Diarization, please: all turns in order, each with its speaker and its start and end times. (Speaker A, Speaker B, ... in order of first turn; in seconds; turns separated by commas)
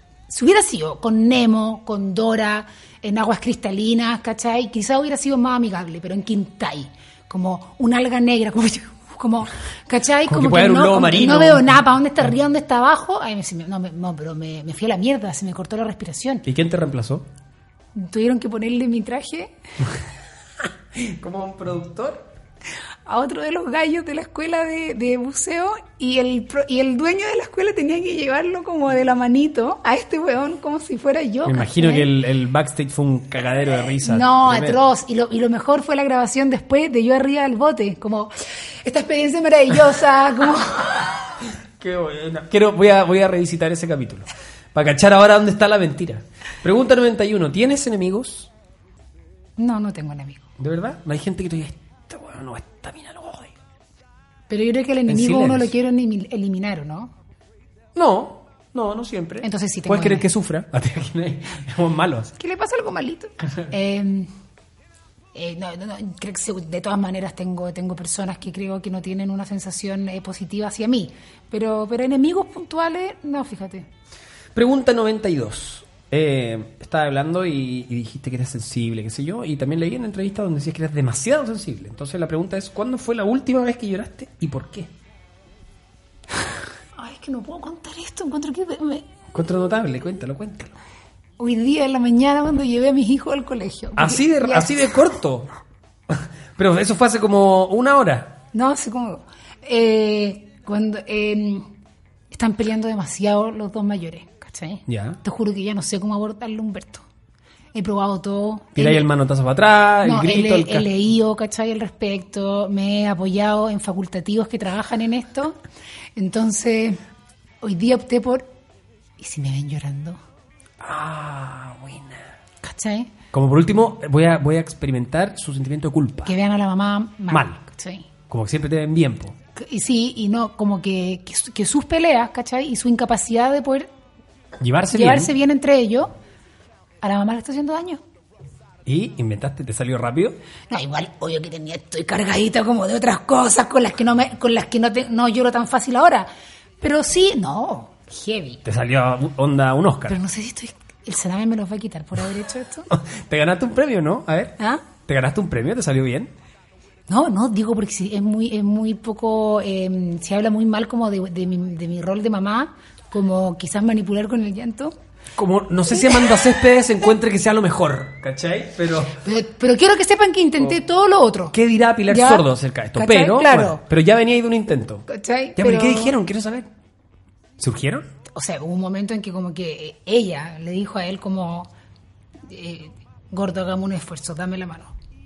Speaker A: 0.3-16.4, Speaker B: 10.2-11.8, Speaker B: 16.4-17.3, Speaker A: 17.9-19.5, Speaker B: 20.9-22.3, Speaker A: 23.1-32.1, Speaker B: 31.4-34.8, Speaker A: 34.0-38.3, Speaker A: 38.8-41.2, Speaker B: 41.8-48.5, Speaker A: 49.6-50.5, Speaker B: 50.6-53.5, Speaker A: 54.5-57.1, Speaker B: 55.1-55.7, Speaker B: 57.9-62.3, Speaker A: 59.4-60.3, Speaker A: 62.4-64.3, Speaker A: 65.3-73.9, Speaker B: 74.5-84.9, Speaker A: 87.0-89.1, Speaker B: 89.3-90.7, Speaker A: 91.4-94.9, Speaker B: 94.0-95.5, Speaker B: 96.1-98.4, Speaker A: 98.5-101.7, Speaker A: 102.3-107.0, Speaker B: 104.9-105.2, Speaker A: 107.7-109.1, Speaker B: 108.8-110.9, Speaker A: 110.0-115.6, Speaker A: 116.2-117.0, Speaker A: 117.6-118.5, Speaker A: 119.2-120.2, Speaker B: 120.8-122.3, Speaker A: 122.6-123.1, Speaker B: 123.3-126.3, Speaker A: 126.2-128.1, Speaker B: 127.3-127.6, Speaker B: 128.3-129.3, Speaker A: 129.5-133.9, Speaker B: 134.6-135.3, Speaker A: 134.9-136.1, Speaker A: 137.0-138.0, Speaker B: 138.8-140.4, Speaker A: 140.7-146.3, Speaker A: 146.8-148.6, Speaker B: 148.6-150.2, Speaker A: 150.1-152.9, Speaker B: 152.9-156.3, Speaker A: 154.6-154.8, Speaker A: 157.1-164.9, Speaker B: 165.3-169.2, Speaker A: 165.9-166.3, Speaker A: 169.1-171.5, Speaker B: 171.5-176.7, Speaker A: 172.1-173.8, Speaker A: 175.1-176.2, Speaker B: 177.6-178.1, Speaker A: 178.3-181.7, Speaker A: 182.5-184.9